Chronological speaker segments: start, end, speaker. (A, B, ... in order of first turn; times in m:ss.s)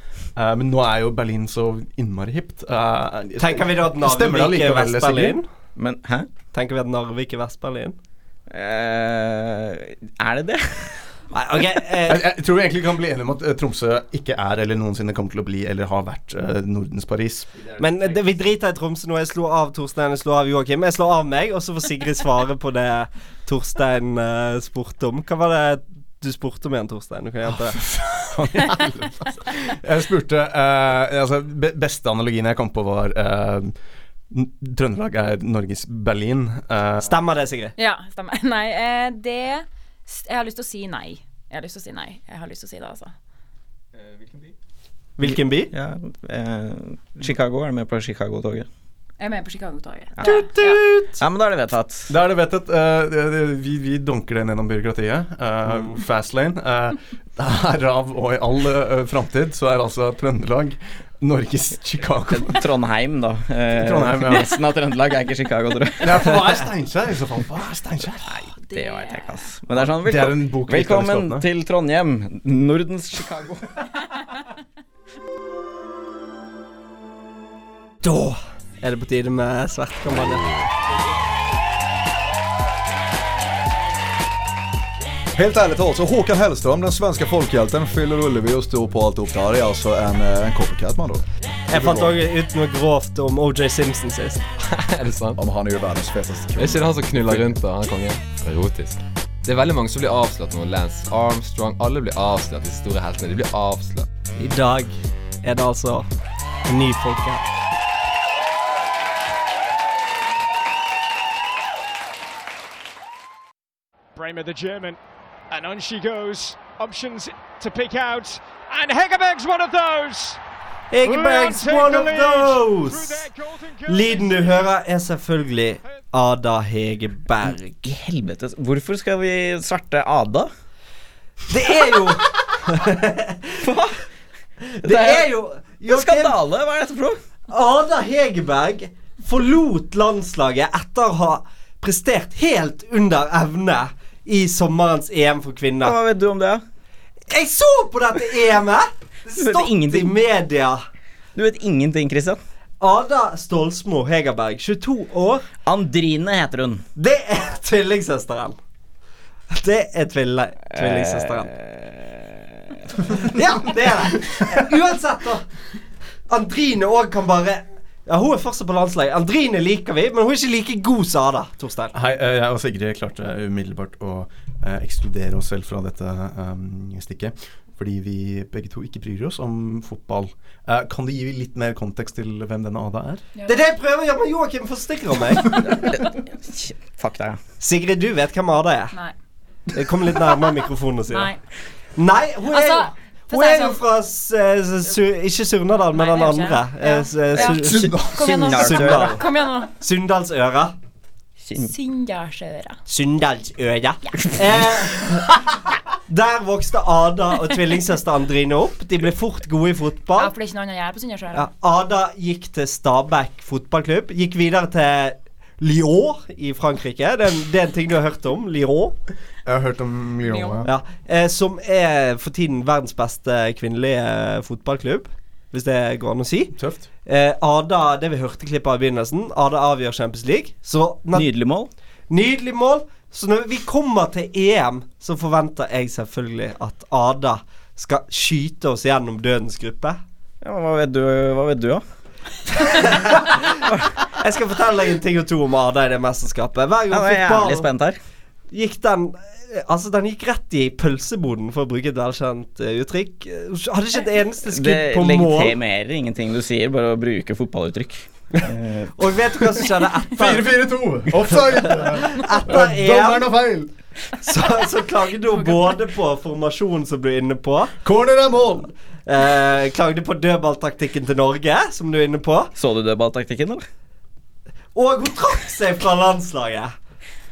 0:00.4-0:05.4 A
0:03.4-0:05.5 B
0:05.8-0:06.3 C
0:06.5-0:08.0 B
0:08.5-0:11.0 C
0:11.3-0:12.2 B
0:12.0-0:18.0 A
0:17.8-0:27.8 B
0:27.6-0:33.7 A
0:34.3-0:37.2 A
0:37.0-0:37.7 B
0:37.8-0:43.1 D
0:45.2-0:45.7 B
0:45.2-0:48.7 C
0:49.2-0:50.8 D
0:50.2-0:50.5 C
0:50.2-0:51.2 B
0:51.2-0:52.1 C
0:52.1-1:02.6 A
1:02.3-1:06.5 C
1:03.7-1:04.5 A
1:06.0-1:08.3 A
1:08.6-1:09.4 D
1:08.7-1:13.8 C
1:09.8-1:11.4 A
1:18.0-1:20.4 B
1:25.3-1:32.2 E
1:31.7-1:34.4 B
1:34.6-1:35.4 F
1:35.4-1:37.5 E
1:36.6-1:44.1 F
1:44.4-1:46.1 B
1:46.7-1:47.4 B
1:54.2-1:55.0 G
1:55.5-2:00.4 G
2:00.9-2:03.3 B
2:01.0-2:04.7 G
2:03.8-2:07.8 B
2:07.8-2:10.5 C
2:11.5-2:13.6 B
2:13.6-2:14.0 C
2:14.7-2:16.4 B
2:14.8-2:15.3 C
2:15.9-2:17.2 C
2:17.5-2:26.0 B
2:25.8-2:26.6 C
2:27.3-2:30.8 B
2:29.4-2:30.2 C
2:31.4-2:32.4 C
2:32.8-2:35.4 B
2:35.6-2:36.8 C
2:37.0-2:38.6 B
2:39.5-2:41.5 B
2:40.8-2:42.7 C
2:43.0-2:45.5 B
2:46.3-2:51.9 B
2:51.9-3:03.2 A
3:03.3-3:03.6 D
3:03.4-3:05.6 B
3:05.6-3:07.4 C
3:07.6-3:08.9 B
3:09.7-3:11.3 B
3:11.1-3:11.4 D
3:12.0-3:19.2 B
3:12.5-3:13.8 D
3:15.9-3:19.7 D
3:17.4-3:19.2 C
3:17.6-3:18.3 A
3:19.8-3:20.8 B
3:21.5-3:22.8 D
3:22.9-3:25.4 B
3:26.1-3:30.3 B
3:30.1-3:31.5 D
3:31.3-3:38.9 B
3:39.4-3:40.7 A
3:40.2-3:40.6 D
3:40.6-3:51.3 B
3:46.5-3:46.9 A
3:51.1-3:51.7 C
3:52.1-4:00.0 B
4:00.4-4:01.8 C
4:02.6-4:07.7 B
4:06.9-4:08.0 C
4:08.5-4:15.5 B
4:14.5-4:18.9 C
4:19.0-4:20.5 B
4:20.2-4:23.7 A
4:22.0-4:23.3 B
4:24.2-4:27.8 B
4:27.8-4:28.7 A
4:29.0-4:32.5 B
4:32.6-4:33.6 C
4:34.7-4:36.7 B